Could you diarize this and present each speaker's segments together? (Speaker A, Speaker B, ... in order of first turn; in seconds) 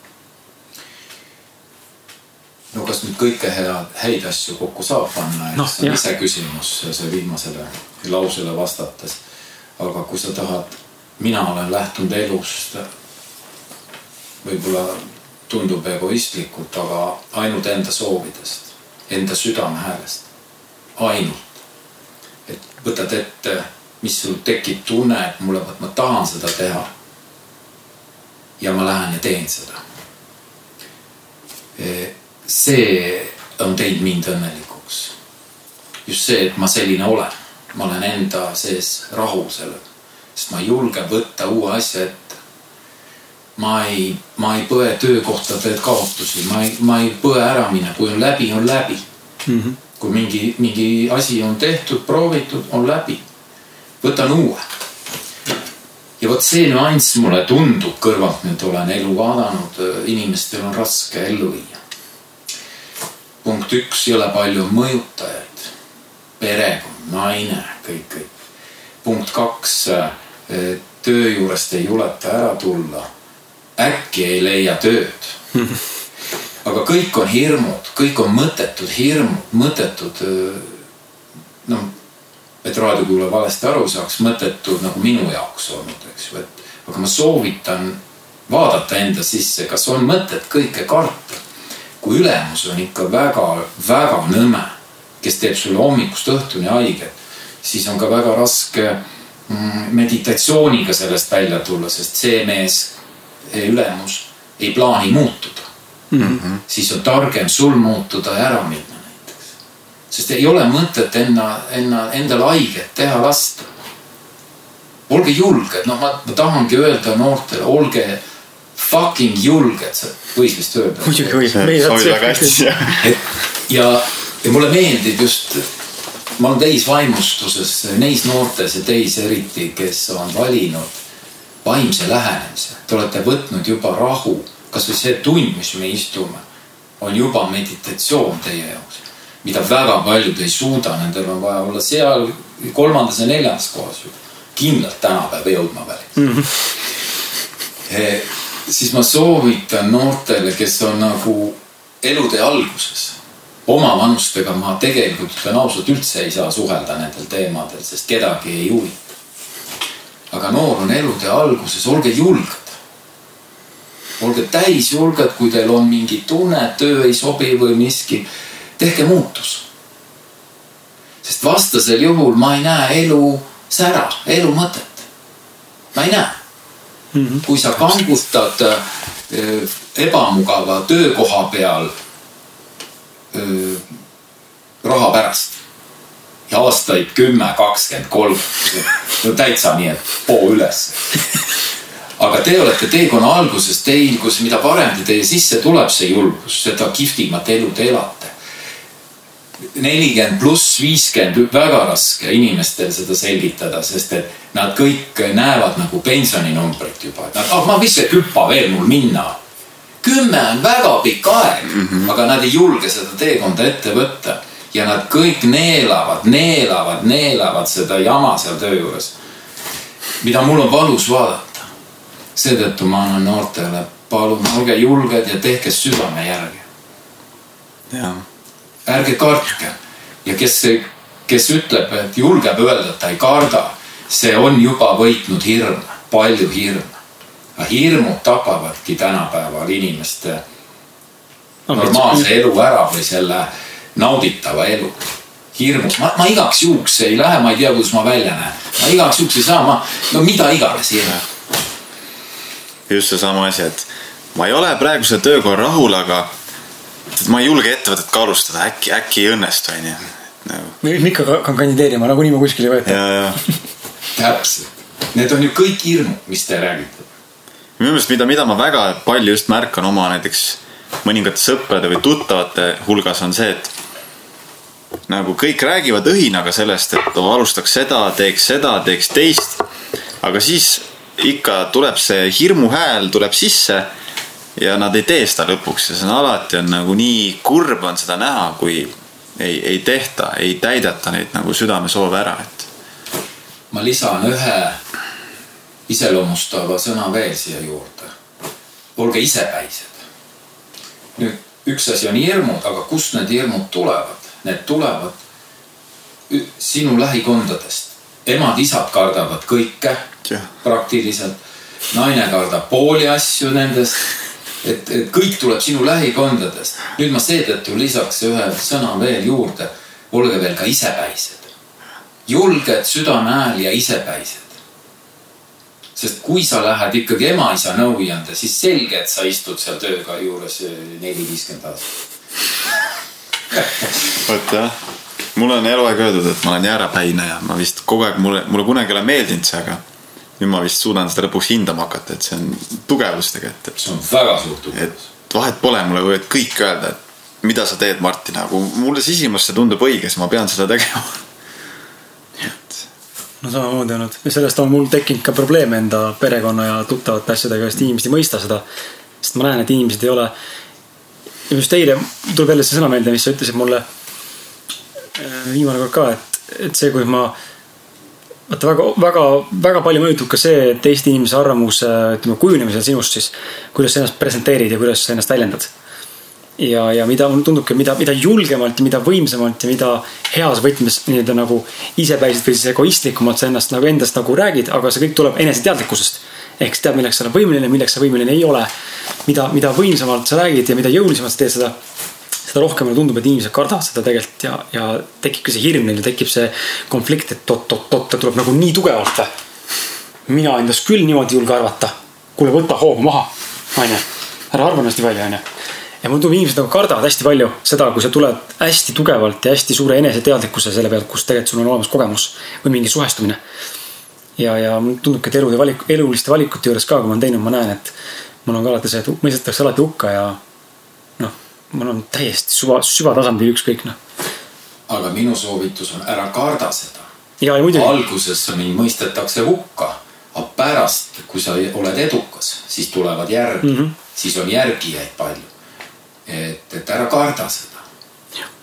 Speaker A: 2.7-9.2, 9.8-12.8, 14.4-20.2, 21.0-21.6, 22.4-26.9, 28.6-29.8, 31.8-35.1, 36.0-39.8, 40.3-42.4, 43.6-49.0, 50.0-53.2, 54.0-54.6, 56.2-61.8, 63.4-65.7, 66.4-68.3, 69.0-73.1, 73.8-75.4, 76.6-80.8, 81.6-81.9, 82.6-91.4, 92.0-105.7, 106.5-109.5, 110.1-113.7, 115.1-118.2, 118.8-121.6, 123.0-125.7, 126.4-130.9, 131.6-136.4, 137.0-146.2, 147.9-159.1, 160.3-162.8, 164.2-168.2, 168.8-169.6, 171.2-175.1, 175.9-176.4, 177.4-181.9, 183.3-183.9, 184.8-185.6, 186.5-191.2, 192.2-198.3, 199.7-209.4, 210.0-219.1, 220.2-221.7, 222.3-226.6, 228.8-237.0, 237.6-240.4, 241.7-251.2, 264.1-267.1, 293.7-294.8, 295.9-298.1, 298.9-300.0, 301.1-305.2, 306.3-310.1, 310.6-311.3, 311.9-314.1, 314.6-321.5, 322.3-324.6, 325.9-331.9, 333.5-333.9, 343.8-345.0, 424.9-427.1, 427.7-435.5, 436.2-437.8
Speaker B: 5.5-6.0, 49.5-49.8, 106.1-106.4, 121.0-122.6, 146.2-146.5, 177.1-177.4, 241.7-242.3, 260.8-263.0, 353.4-358.6, 359.2-360.3, 361.5-363.8, 365.1-367.4, 368.5-375.7, 376.6-388.7, 389.2-391.8, 392.4-399.3, 400.3-405.4, 406.0-413.4, 414.4-417.9, 418.4-420.4, 421.2-424.0, 427.4-427.9, 433.6-433.9
Speaker C: 106.2-106.6, 121.5-123.1, 227.9-228.2, 252.9-256.3, 257.1-260.8, 262.8-263.4, 267.8-273.7, 275.1-279.6, 280.2-283.9, 284.6-292.7, 310.2-310.5, 334.2-334.8, 335.3-339.8, 340.4-343.7, 344.7-351.2, 352.4-352.8